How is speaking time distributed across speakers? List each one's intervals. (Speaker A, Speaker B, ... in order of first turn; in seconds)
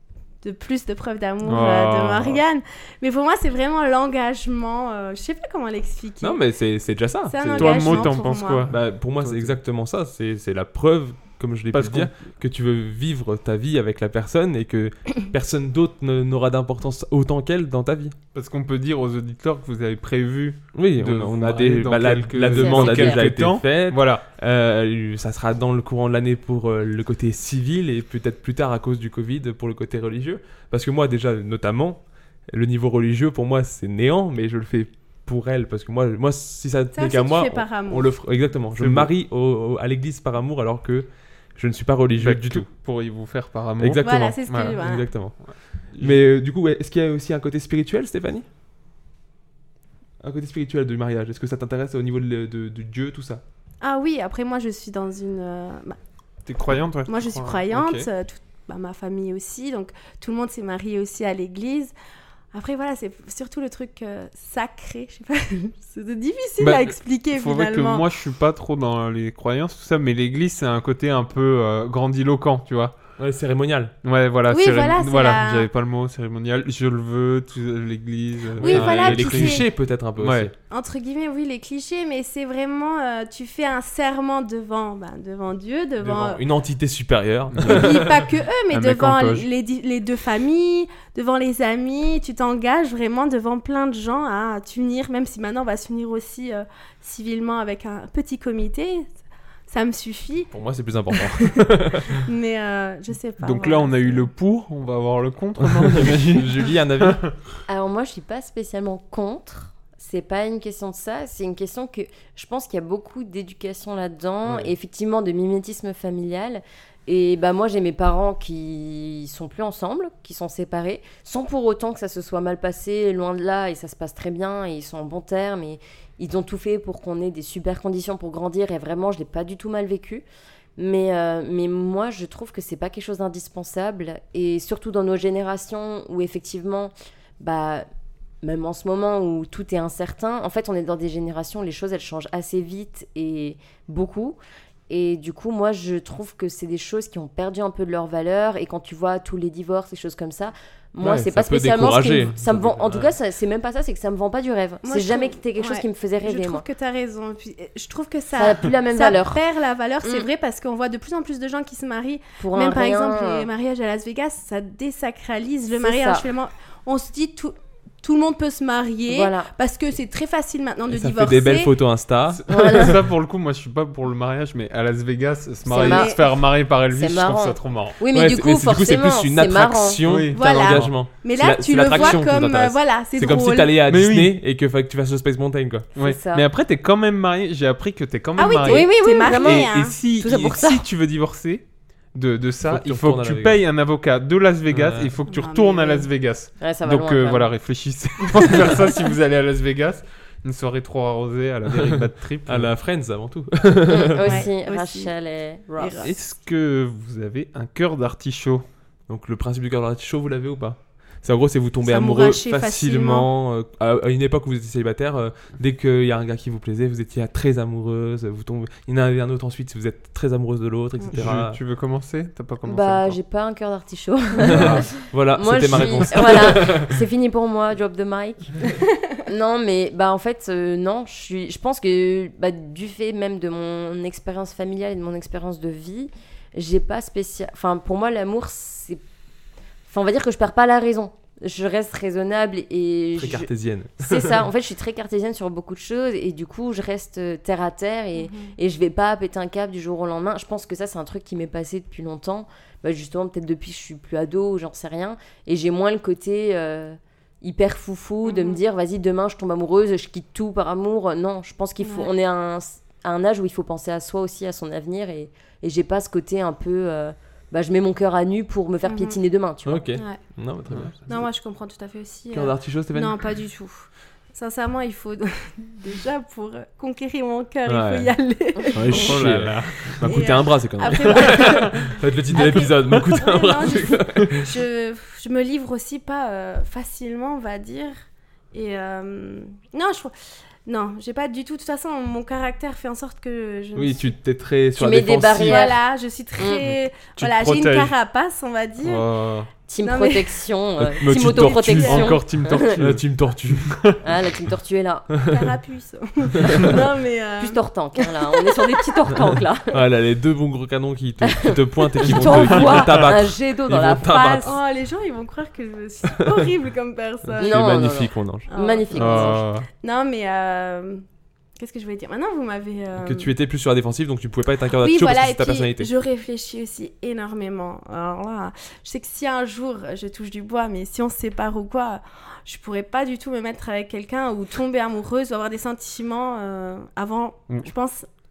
Speaker A: 0.4-6.4, 7.3-8.7, 36.9-38.1, 44.0-45.0, 53.8-56.0, 57.1-61.9, 62.5-68.0, 74.5-75.7, 78.6-79.6, 80.7-86.4, 87.7-99.1, 99.7-100.5, 101.1-101.4, 102.1-104.2, 154.8-171.7, 175.7-176.3, 180.3-183.7, 188.4-189.9, 195.3-196.1, 204.2-205.1, 205.8-206.1, 211.8-213.3, 248.1-248.5, 258.2-258.6, 261.8-262.1, 268.8-269.2, 269.9-270.2, 271.1-279.1, 280.0-287.9, 288.5-290.1, 290.6-294.1, 295.4-299.1, 299.8-300.4, 301.1-302.1, 305.3-308.9, 314.1-317.9, 318.5-321.0, 321.6-323.3, 324.8-338.1
Speaker B: 1.4-2.4, 7.5-9.6, 11.7-12.1, 18.3-24.2, 38.8-39.1, 42.2-44.8, 45.4-46.2, 56.5-58.1, 66.6-72.9, 74.0-79.6, 80.2-80.5, 87.6-87.9, 88.7-89.5, 103.4-107.3, 172.4-178.0, 180.0-180.9, 183.9-184.3, 185.9-202.7, 206.0-208.6, 221.1-223.2, 224.5-224.8, 225.7-226.1, 278.9-280.1, 281.1-281.7, 297.1-297.9, 298.8-299.5, 301.9-304.0, 312.1-313.1, 318.9-319.6
Speaker C: 6.2-18.1, 20.7-42.7, 43.8-48.5, 50.2-53.4, 73.2-73.9, 78.6-80.5, 86.0-88.2, 100.5-102.2, 105.6-107.3, 151.0-153.1, 170.9-172.8, 178.1-185.9, 192.7-193.6, 194.7-195.1, 201.7-204.4, 209.1-221.6, 224.4-227.0, 243.2-244.4, 269.6-271.3, 272.3-273.3, 277.6-278.1, 278.7-284.5, 293.7-295.7, 300.8-303.9, 305.1-305.5, 309.7-314.6, 317.3-318.5, 323.0-325.9
Speaker D: 22.6-23.2, 107.7-130.2, 130.8-137.8, 138.4-144.4, 144.9-156.6, 158.3-159.4, 162.4-163.5, 165.8-166.2, 169.1-169.5, 172.5-172.9, 175.7-176.1, 176.9-180.0, 186.0-186.4, 188.7-190.8, 196.6-197.5, 203.9-206.1, 222.6-228.6, 229.2-239.0, 239.9-269.9, 294.8-295.8, 296.4-296.7, 299.7-302.8, 304.0-305.1, 307.4-309.8, 311.2-314.5, 317.4-319.4